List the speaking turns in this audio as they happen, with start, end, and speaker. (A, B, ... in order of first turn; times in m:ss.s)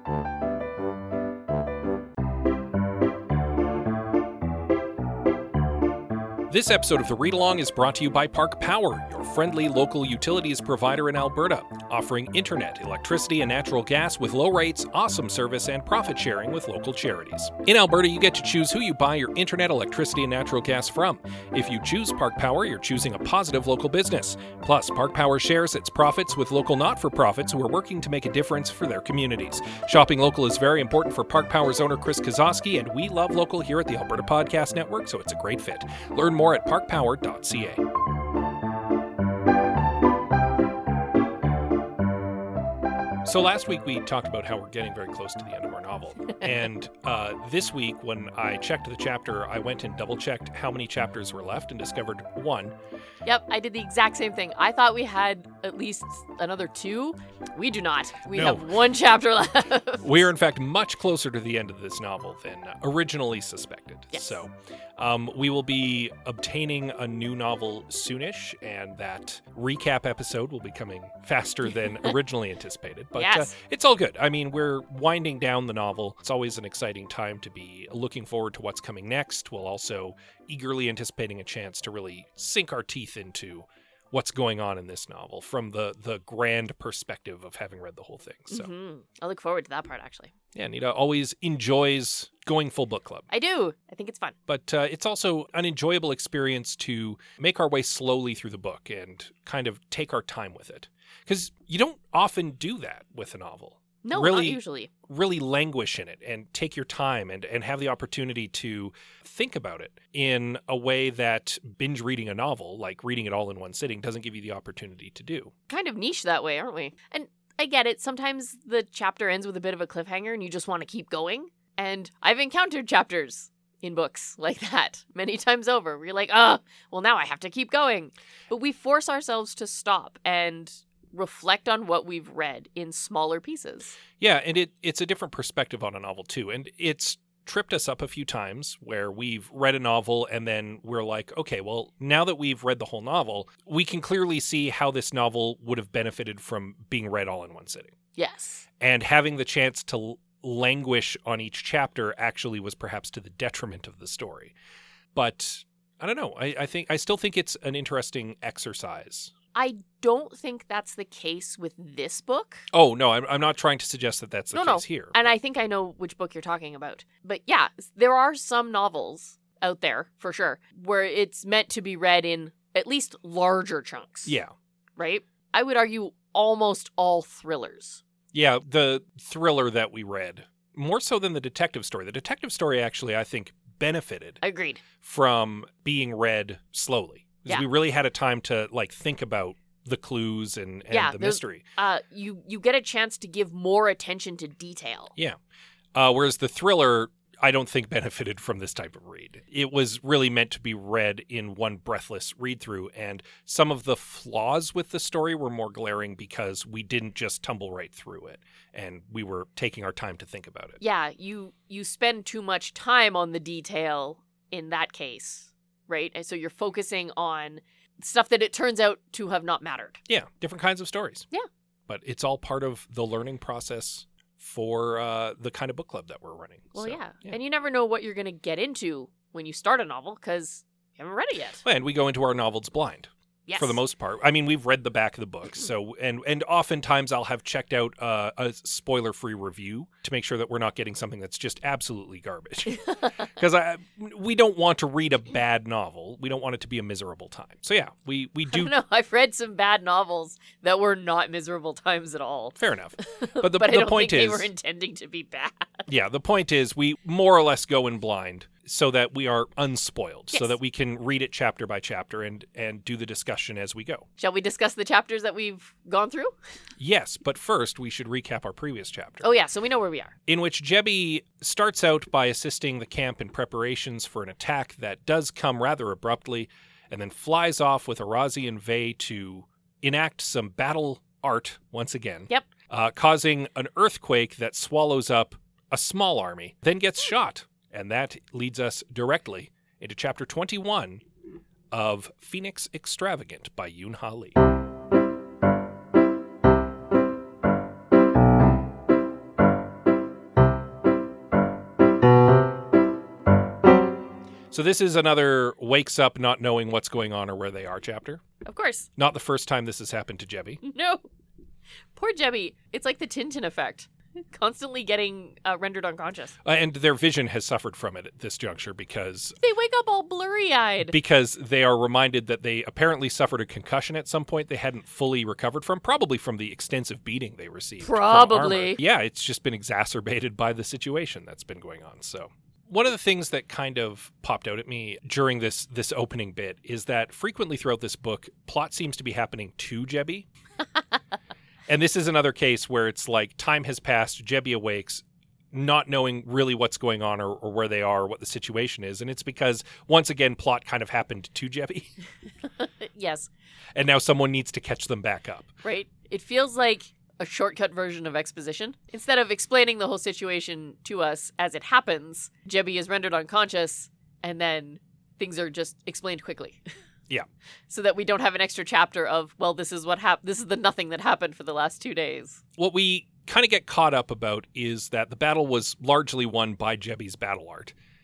0:06.5-0:37.8 A
0:43.2-0:52.8 A
0:53.2-1:00.2 B
0:58.3-0:58.8 A
1:00.0-1:28.7 A
1:04.1-1:04.4 B
1:13.2-1:13.5 B
1:28.5-1:30.3 B
1:30.5-1:33.3 A
1:33.3-1:34.4 B
1:34.5-1:55.5 A
1:44.0-1:44.9 B
1:55.7-2:14.0 B
2:14.2-2:27.9 A
2:28.2-2:28.6 B
2:28.8-2:34.6 A
2:35.1-2:39.3 A
2:39.6-2:42.7 B
2:42.7-2:45.3 A
2:44.5-2:54.3 B
2:54.3-2:54.5 A
2:55.0-2:58.0 B
2:58.3-3:04.4 A
3:04.4-3:04.8 B
3:05.0-3:11.6 A
3:10.9-3:15.1 B
3:16.0-3:30.8 A
3:30.8-3:40.0 B
3:40.1-3:41.3 A
3:41.9-3:47.4 A
3:46.7-3:51.6 B
3:51.6-4:08.7 A
3:53.5-3:53.8 B
4:02.9-4:03.2 B
4:08.5-4:15.9 B
4:12.6-4:14.5 A
4:15.9-4:24.1 A
4:24.2-4:26.3 B
4:26.8-4:29.3 A
4:29.2-4:30.1 B
4:30.3-4:51.0 A
4:51.7-4:54.4 A
5:04.5-5:08.2 A
5:08.4-5:08.9 B
5:09.0-5:10.6 A
5:10.6-5:11.1 B
5:12.0-5:16.4 B
5:16.4-5:19.4 A
5:19.4-5:21.0 B
5:20.9-5:40.3 A
5:27.8-5:28.8 B
5:41.7-5:51.9 A
5:52.6-5:53.3 B
5:53.8-5:55.5 A
5:55.6-6:06.6 B
6:07.7-6:12.4 B
6:12.6-6:17.8 A